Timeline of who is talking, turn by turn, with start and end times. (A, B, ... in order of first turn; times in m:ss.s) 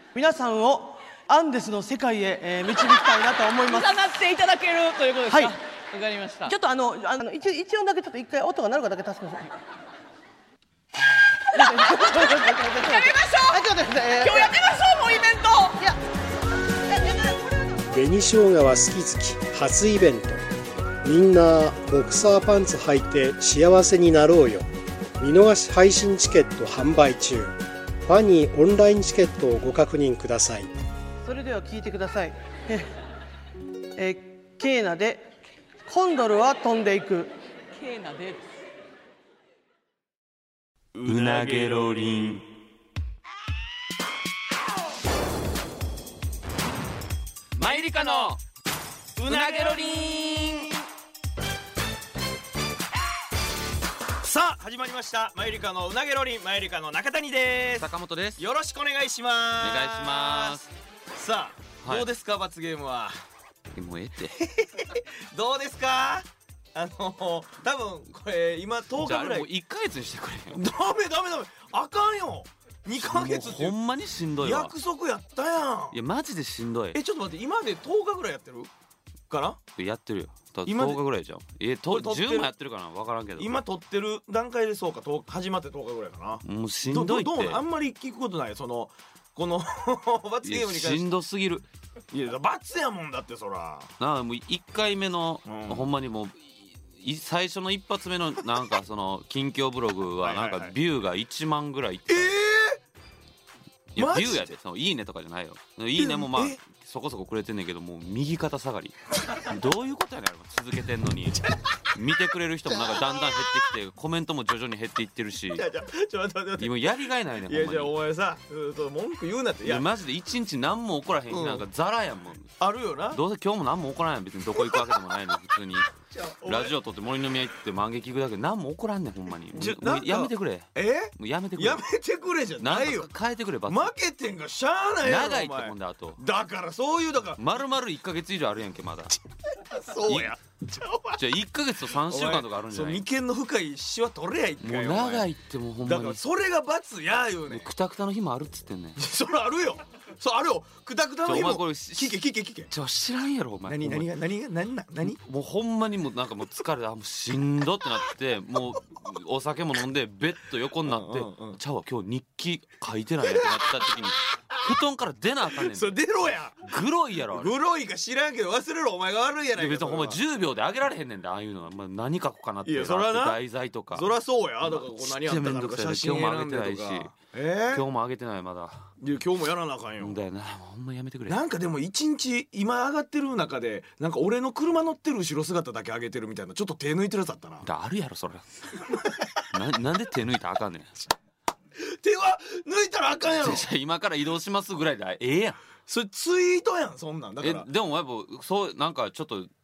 0:00.1-0:04.0 A
0:03.6-0:06.5 B
0:05.3-0:05.6 A
0:06.5-0:09.5 A
0:11.5-0:15.8 B
0:11.5-0:14.6 A
0:17.9-0:20.4 C
0:21.0-0:24.7 C
0:25.2-0:30.7 C
0:31.2-0:32.9 A
0:34.0-0:35.3 A
0:35.9-0:37.3 A
0:37.7-0:38.5 B
0:40.9-0:42.0 D
0:41.0-0:42.5 E
0:47.6-0:48.4 E
0:47.6-0:48.3 D
0:49.2-0:50.7 D
0:49.3-0:50.7 E
0:54.2-1:00.6 D
0:57.8-0:58.4 E
0:59.6-1:00.7 E
1:01.2-1:03.1 D
1:03.8-1:04.5 E
1:04.4-1:09.5 D
1:09.1-1:10.6 E
1:10.5-1:13.8 D
1:13.0-1:14.7 E
1:14.4-1:16.0 D
1:15.9-1:17.0 E
1:16.9-1:18.7 D
1:19.3-1:19.6 D
1:19.8-1:23.6 E
1:20.7-1:21.0 D
1:21.9-1:22.5 D
1:23.4-1:31.0 D
1:26.4-1:27.6 E
1:30.4-1:31.7 E
1:32.1-1:33.9 D
1:34.0-1:42.4 E
1:35.5-1:35.9 D
1:40.2-1:40.8 D
1:42.1-1:42.8 D
1:44.0-1:55.6 E
1:44.0-1:44.5 D
1:46.0-1:46.6 D
1:52.7-1:53.7 D
1:55.5-1:56.9 D
1:56.6-1:58.0 E
1:57.5-1:59.9 D
1:59.6-2:02.5 E
2:01.3-2:01.7 D
2:02.6-2:03.2 D
2:03.1-2:11.8 E
2:04.5-2:05.4 D
2:05.9-2:06.8 D
2:09.5-2:13.1 D
2:12.6-2:13.9 E
2:13.7-2:17.4 D
2:15.0-2:16.2 E
2:17.4-2:19.2 E
2:19.5-2:21.2 D
2:20.1-2:20.3 E
2:21.2-2:23.0 E
2:21.9-2:25.3 D
2:24.6-2:26.2 E
2:25.8-2:27.7 D
2:27.5-2:29.0 E
2:29.0-2:32.7 D
2:31.2-2:34.1 E
2:33.7-2:35.2 D
2:35.0-2:46.0 E
2:40.8-2:41.6 D
2:43.2-2:44.8 D
2:45.5-2:46.7 D
2:46.7-2:47.6 E
2:47.3-2:50.2 D
2:49.6-2:54.1 E
2:52.6-2:53.4 D
2:53.9-2:57.9 D
2:54.6-2:57.2 E
2:57.7-2:58.9 E
2:59.0-3:00.2 D
3:00.0-3:01.4 E
3:01.3-3:07.7 D
3:07.6-3:08.5 E
3:08.8-3:09.4 D
3:09.5-3:10.9 E
3:11.8-3:13.7 D
3:13.4-3:15.6 E
3:15.9-3:17.7 D
3:17.4-3:19.5 E